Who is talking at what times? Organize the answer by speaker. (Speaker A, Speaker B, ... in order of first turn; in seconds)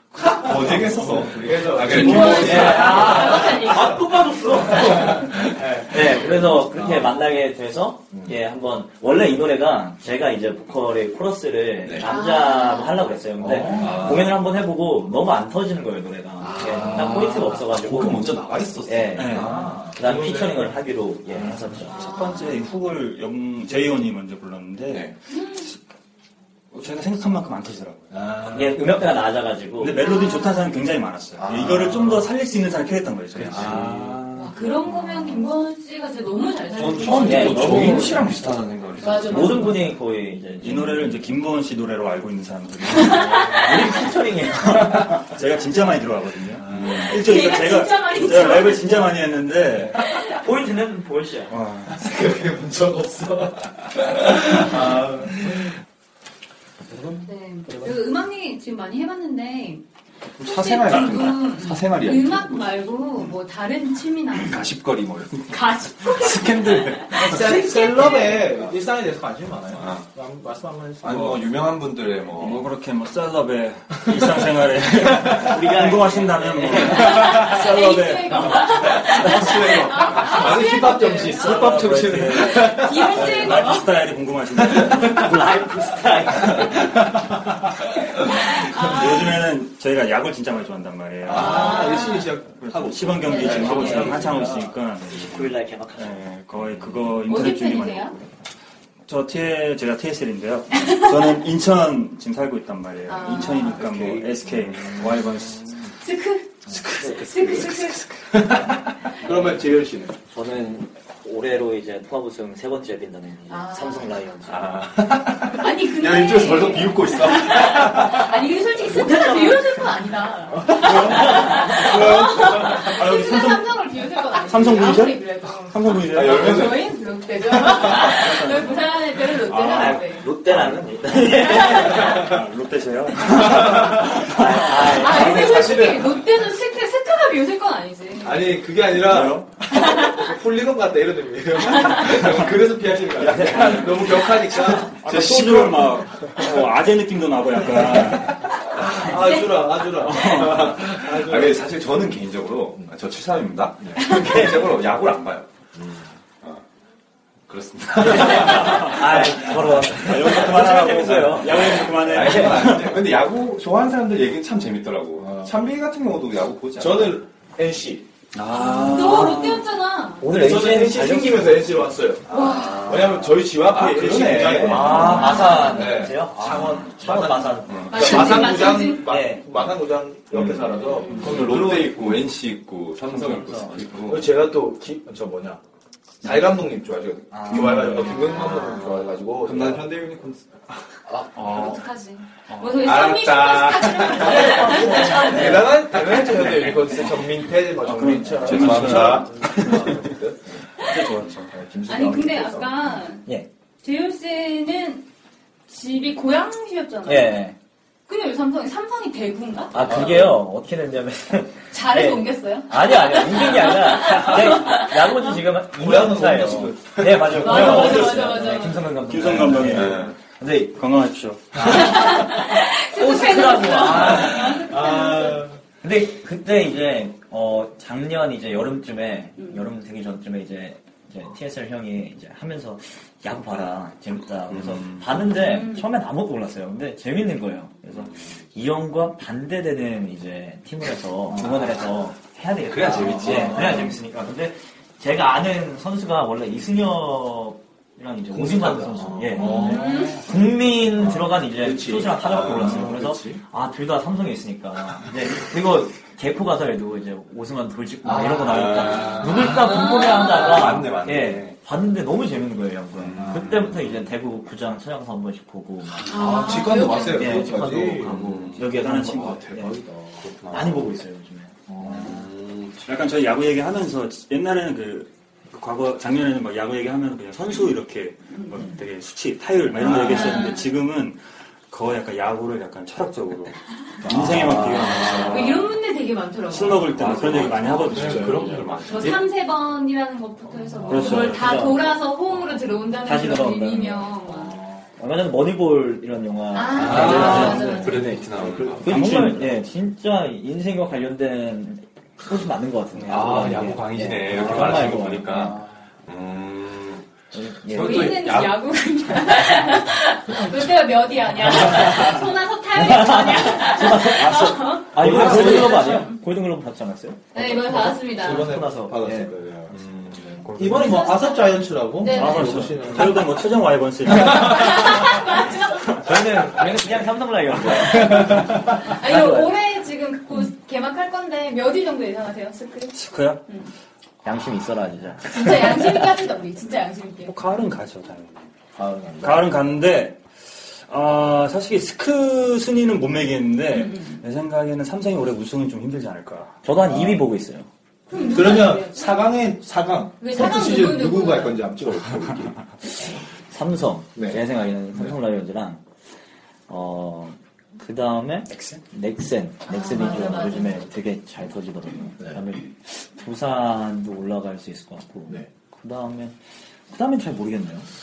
Speaker A: 0.2-7.1, 13.4-14.2, 16.4-17.3, 19.3-20.8, 28.1-28.8, 33.4-33.9, 51.9-55.7, 67.1-71.5, 79.1-83.3, 84.6-85.2, 91.2-94.6, 103.8-104.5, 108.3-110.2, 117.6-118.0, 133.2-134.2, 135.1-136.2, 138.2-145.2, 148.8-151.6, 158.1-158.6, 165.2-165.6, 166.8-168.1, 170.2-182.2, 184.0-185.6, 186.2-190.4, 192.8-200.4, 201.5-203.0, 209.8-210.4, 215.7-218.5, 221.6-221.8, 224.4-225.6, 241.3-241.7, 243.2-243.9, 248.3-253.4, 258.0-259.6, 266.0-270.3, 271.7-272.1, 287.9-289.0, 296.8-298.8, 315.0-315.9, 317.4-323.4, 327.8-328.7, 338.8-339.5, 346.8-347.2, 348.3-352.6, 354.1-354.4
Speaker B: 0.2-3.0, 11.8-12.1, 13.8-14.4, 16.4-19.6, 24.9-25.1, 31.4-32.3, 33.4-34.5, 36.7-39.9, 46.6-47.1, 60.4-62.9, 64.3-65.5, 66.0-67.2, 69.7-70.0, 71.0-72.6, 114.5-118.2, 126.1-126.9, 143.3-144.2, 145.0-146.0, 150.6-156.6, 157.5-159.9, 161.3-167.2, 172.3-175.8, 176.4-176.9, 177.7-177.9, 180.3-184.4, 188.1-190.4, 198.4-200.0, 209.8-210.2, 219.7-220.1, 234.5-235.1, 237.9-238.3, 241.4-241.8, 242.6-244.0, 252.5-252.9, 258.2-261.6, 262.9-264.1, 268.0-268.6, 270.2-271.0, 271.8-272.8, 284.1-285.7, 286.9-289.2, 296.8-299.2, 303.1-307.1, 307.6-308.6, 319.7-320.4
Speaker C: 1.9-4.0, 12.0-13.0, 21.9-22.6, 25.3-25.7, 30.0-30.7, 34.3-38.2, 39.0-39.9, 42.9-43.6, 47.1-49.1, 50.0-50.3, 57.2-59.8, 60.4-64.7, 65.5-68.5, 76.9-81.8, 82.5-83.9, 88.5-89.3, 91.3-92.3, 93.3-93.9, 97.2-98.1, 100.8-101.1, 103.1-103.8, 106.0-106.5, 107.1-108.0, 113.5-114.1, 115.5-130.3, 131.3-132.1, 134.9-138.6, 139.8-140.1, 141.7-142.1, 168.5-170.2, 172.3-173.0, 174.9-175.9, 177.9-179.1, 191.4-195.7, 201.9-203.2, 203.8-205.0, 205.7-207.5, 208.1-209.8, 211.7-215.3, 217.3-218.9, 221.7-225.4, 235.4-235.8, 249.4-250.2, 259.6-260.7, 266.1-267.5, 280.0-280.6, 285.2-287.1, 288.9-294.5, 296.5-298.1, 307.7-316.2, 317.3-318.6, 320.7-323.1, 324.1-325.9, 328.8-333.7, 335.2-337.4, 343.7-344.2, 348.1-349.3, 350.2-351.6, 359.7-360.8
Speaker D: 1.9-22.0, 28.5-30.1, 37.0-38.3, 39.1-41.2, 43.5-45.2, 50.2-51.5, 75.2-77.5, 85.1-87.0, 93.4-96.3, 107.0-107.3, 110.3-114.9, 118.9-119.6, 121.3-121.7, 129.6-132.2, 134.2-135.9, 154.0-154.6, 158.0-162.7, 170.2-171.6, 174.5-179.4, 183.2-183.6, 187.3-188.3, 194.3-195.7, 207.1-207.6, 209.7-220.8, 221.6-224.7, 225.8-269.8, 270.4-272.3, 284.1-285.0, 290.9-292.0, 293.0-298.2, 298.8-305.6, 307.3-308.4, 311.7-312.1, 312.7-319.3, 326.0-329.6, 334.2-336.0, 346.6-347.7, 353.5-355.8, 356.7-366.4, 366.9-367.9
Speaker E: 19.1-19.6, 21.9-25.8, 26.7-28.1, 29.8-34.2, 40.6-50.0, 51.5-52.0, 72.4-79.7, 81.2-85.4, 88.5-98.2, 99.0-105.8, 120.8-126.8, 128.0-128.8, 129.3-135.2, 138.9-139.5, 143.3-144.2, 145.0-148.4, 150.0-151.0, 158.6-158.9, 159.9-163.0, 168.3-169.7, 187.6-188.1, 191.3-191.8, 192.5-193.2, 196.6-196.8, 197.8-200.0, 200.8-201.5, 217.6-218.1, 219.0-220.1, 220.7-221.9, 268.6-269.5, 272.8-285.7, 286.5-288.6, 290.9-291.7, 296.9-297.9, 298.8-299.6, 303.0-303.3, 315.0-316.0, 320.4-321.1, 322.1-325.2, 332.9-333.4, 337.2-338.5, 339.2-346.6, 358.5-358.8